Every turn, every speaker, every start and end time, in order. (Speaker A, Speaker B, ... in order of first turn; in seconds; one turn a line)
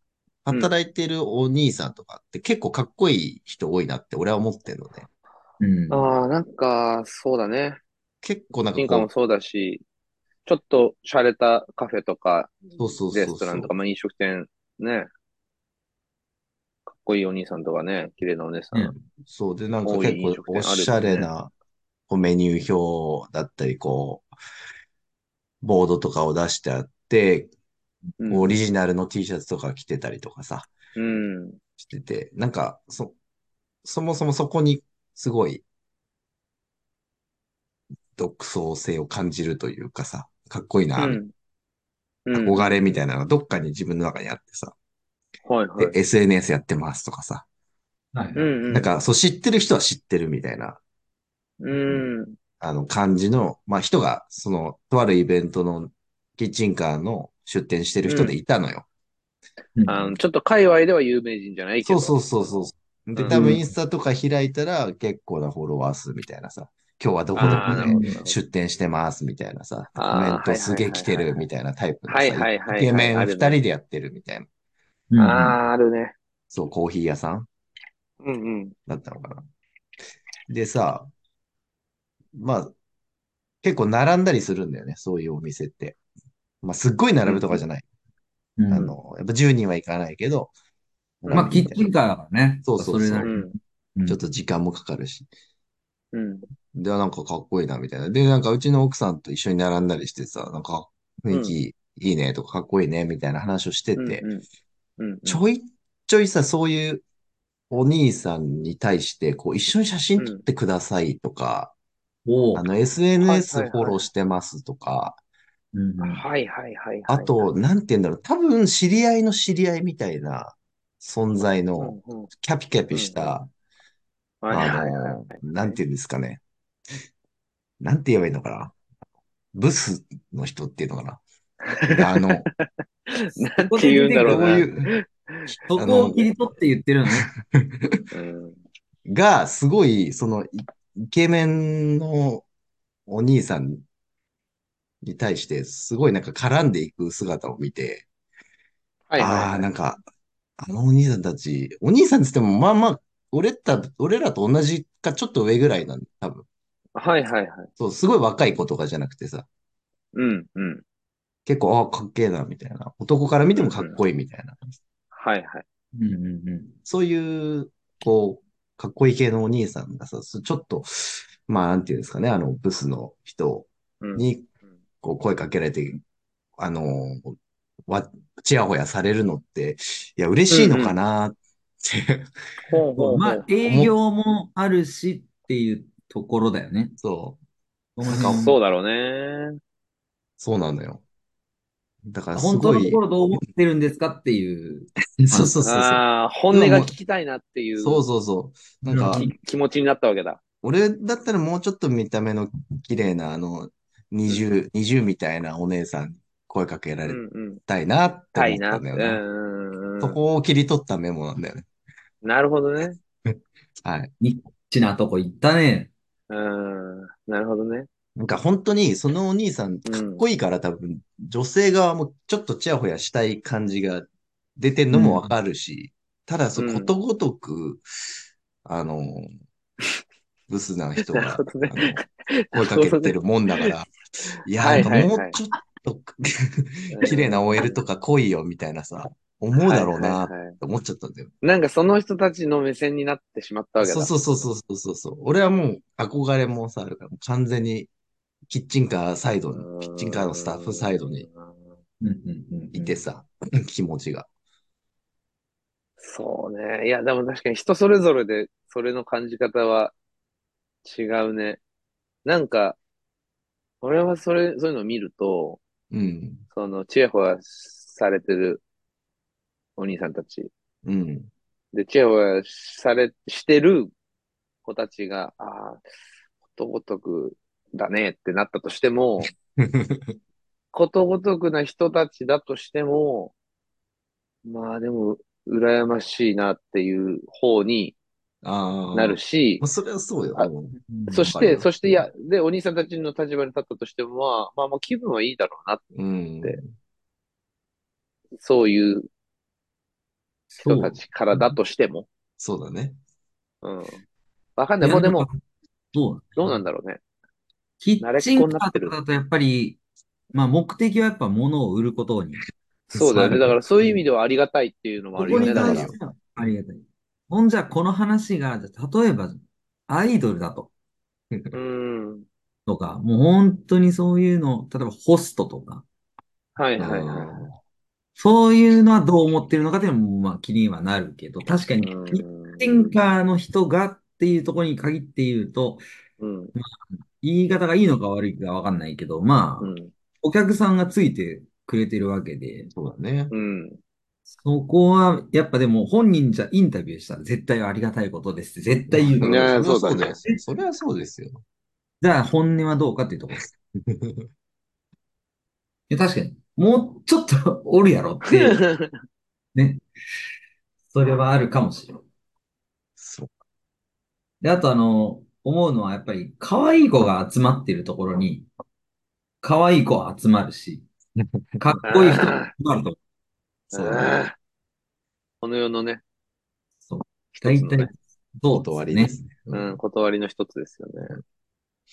Speaker A: 0.4-5.1
Speaker B: 5.6-6.1
Speaker C: 5.9-7.8
Speaker A: 8.2-9.1
Speaker C: 8.8-9.8
Speaker C: 10.4-15.1
Speaker A: 12.8-13.7
Speaker C: 16.9-18.9
Speaker A: 19.2-21.5
Speaker C: 19.8-21.3
Speaker A: 22.1-24.3
Speaker A: 25.6-27.5
Speaker C: 28.2-28.6
Speaker A: 28.3-30.7
Speaker C: 30.9-31.6
Speaker A: 31.8-33.1
Speaker A: 33.8-35.6
Speaker A: 38.2-41.2
Speaker C: 41.0-41.3
Speaker C: 42.2-42.8
Speaker A: 42.3-44.7
Speaker C: 45.4-45.9
Speaker A: 45.8-47.4
Speaker B: 48.1-48.5
Speaker C: 48.4-48.9
Speaker A: 48.7-50.8
Speaker C: 51.6-52.4
Speaker A: 52.6-58.9
Speaker C: 58.1-58.4
Speaker B: 59.8-60.1
Speaker C: 59.9-63.6
Speaker A: 61.8-74.5
Speaker B: 63.3-63.7
Speaker C: 67.3-68.3
Speaker B: 67.6-68.2
Speaker C: 70.0-71.4
Speaker C: 72.1-73.6
Speaker B: 75.1-75.6
Speaker C: 75.2-76.1
Speaker A: 76.5-77.5
Speaker C: 78.2-78.7
Speaker A: 78.9-79.4
Speaker A: 80.5-81.1
Speaker A: 82.3-82.7
Speaker A: 83.6-86.0
Speaker A: 86.6-87.8
Speaker C: 87.2-87.6
Speaker B: 88.6-88.9
Speaker A: 88.7-90.5
Speaker A: 91.2-91.9
Speaker C: 91.2-91.6
Speaker B: 91.3-94.2
Speaker A: 92.6-93.3
Speaker C: 93.2-93.5
Speaker A: 94.0-95.3
Speaker C: 96.1-96.5
Speaker A: 96.7-104.2
Speaker C: 104.0-104.4
Speaker C: 105.0-105.4
Speaker A: 105.2-107.0
Speaker A: 107.7-111.7
Speaker C: 110.2-110.4
Speaker B: 112.2-112.6
Speaker A: 112.5-115.2
Speaker C: 113.2-114.0
Speaker B: 115.7-116.2
Speaker C: 116.0-117.5
Speaker A: 117.1-123.5
Speaker C: 121.8-122.3
Speaker C: 122.9-123.3
Speaker C: 124.4-125.8
Speaker A: 124.5-126.4
Speaker A: 127.8-128.7
Speaker A: 129.5-131.2
Speaker C: 131.7-135.5
Speaker A: 131.8-132.5
Speaker B: 133.6-134.7
Speaker A: 134.2-134.9
Speaker B: 135.7-137.3
Speaker A: 135.7-136.3
Speaker A: 137.1-138.1
Speaker C: 138.1-138.6
Speaker A: 139.1-142.4
Speaker A: 143.1-143.8
Speaker A: 145.0-148.1
Speaker C: 149.1-149.7
Speaker A: 149.2-150.0
Speaker A: 150.6-156.4
Speaker C: 156.9-157.7
Speaker A: 157.8-159.4
Speaker C: 160.1-160.8
Speaker A: 161.4-164.8
Speaker C: 163.6-164.0
Speaker C: 165.1-165.6
Speaker B: 165.9-166.7
Speaker A: 166.8-174.5
Speaker C: 174.0-174.2
Speaker A: 175.0-176.0
Speaker A: 176.6-177.3
Speaker A: 177.9-182.3
Speaker C: 180.5-180.9
Speaker C: 182.6-183.4
Speaker B: 183.0-186.9
Speaker A: 183.6-183.9
Speaker A: 187.0-187.4
Speaker B: 187.9-188.6
Speaker A: 188.0-188.4
Speaker C: 188.2-189.6
Speaker A: 190.4-191.0
Speaker A: 192.1-193.0
Speaker B: 192.3-195.5
Speaker A: 195.2-196.9
Speaker C: 195.6-198.0
Speaker A: 197.8-199.3
Speaker B: 198.9-199.3
Speaker C: 199.1-200.4
Speaker A: 200.6-209.2
Speaker C: 207.1-207.6
Speaker C: 208.3-210.2
Speaker A: 210.0-211.7
Speaker C: 212.2-213.0
Speaker A: 213.3-214.1
Speaker B: 214.2-215.9
Speaker C: 216.3-217.9
Speaker A: 218.2-227.8
Speaker C: 219.8-220.2
Speaker B: 224.9-225.3
Speaker C: 226.6-226.9
Speaker A: 228.6-229.3
Speaker A: 230.5-233.9
Speaker C: 231.0-233.7
Speaker A: 234.4-241.3
Speaker C: 234.6-235.4
Speaker C: 236.9-237.8
Speaker C: 239.5-240.6
Speaker C: 241.4-244.1
Speaker A: 243.8-247.9
Speaker A: 248.5-251.2
Speaker C: 249.5-251.5
Speaker B: 252.0-253.0
Speaker A: 252.7-254.3
Speaker C: 256.0-259.9
Speaker C: 260.8-261.6
Speaker C: 262.2-262.8
Speaker C: 263.8-265.6
Speaker A: 265.9-266.4
Speaker C: 266.5-268.6
Speaker C: 269.8-270.5
Speaker A: 270.8-271.3
Speaker C: 271.7-273.9
Speaker C: 274.6-275.8
Speaker C: 276.5-279.3
Speaker A: 279.6-280.1
Speaker C: 280.7-283.3
Speaker C: 284.4-287.9
Speaker A: 288.4-291.7
Speaker C: 288.9-289.6
Speaker B: 290.8-291.4
Speaker C: 291.1-295.9
Speaker A: 295.9-296.7
Speaker C: 298.4-299.1
Speaker B: 300.5-301.6
Speaker C: 300.6-302.1
Speaker A: 302.4-303.0
Speaker C: 303.6-304.0
Speaker C: 304.6-305.3
Speaker B: 304.8-305.3
Speaker B: 305.9-306.6
Speaker C: 306.4-307.0
Speaker B: 307.8-309.8
Speaker C: 308.0-308.9
Speaker B: 310.3-312.4
Speaker C: 312.9-315.9
Speaker B: 312.9-313.5
Speaker A: 315.2-316.0
Speaker B: 315.2-320.7
Speaker C: 321.5-322.2
Speaker B: 322.7-325.8
Speaker C: 326.6-327.4
Speaker A: 326.8-327.6
Speaker B: 328.2-335.8
Speaker C: 331.8-332.9
Speaker C: 336.2-336.5
Speaker B: 336.5-342.7
Speaker C: 339.6-339.9
Speaker A: 342.7-343.3
Speaker C: 343.3-343.8
Speaker B: 344.3-349.6
Speaker A: 348.9-351.4
Speaker C: 349.2-350.2
Speaker B: 352.0-353.4
Speaker A: 353.9-354.2
Speaker B: 355.9-358.6
Speaker C: 358.2-358.9
Speaker B: 359.5-359.8
Speaker B: 360.9-362.0
Speaker A: 363.0-363.3
Speaker B: 364.4-368.5
Speaker B: 369.4-370.9
Speaker B: 371.6-373.0
Speaker C: 371.8-372.5
Speaker A: 373.7-374.2
Speaker C: 373.7-374.3
Speaker C: 375.4-376.0
Speaker B: 376.9-379.2
Speaker C: 377.4-377.9
Speaker A: 378.5-379.8
Speaker C: 379.5-381.2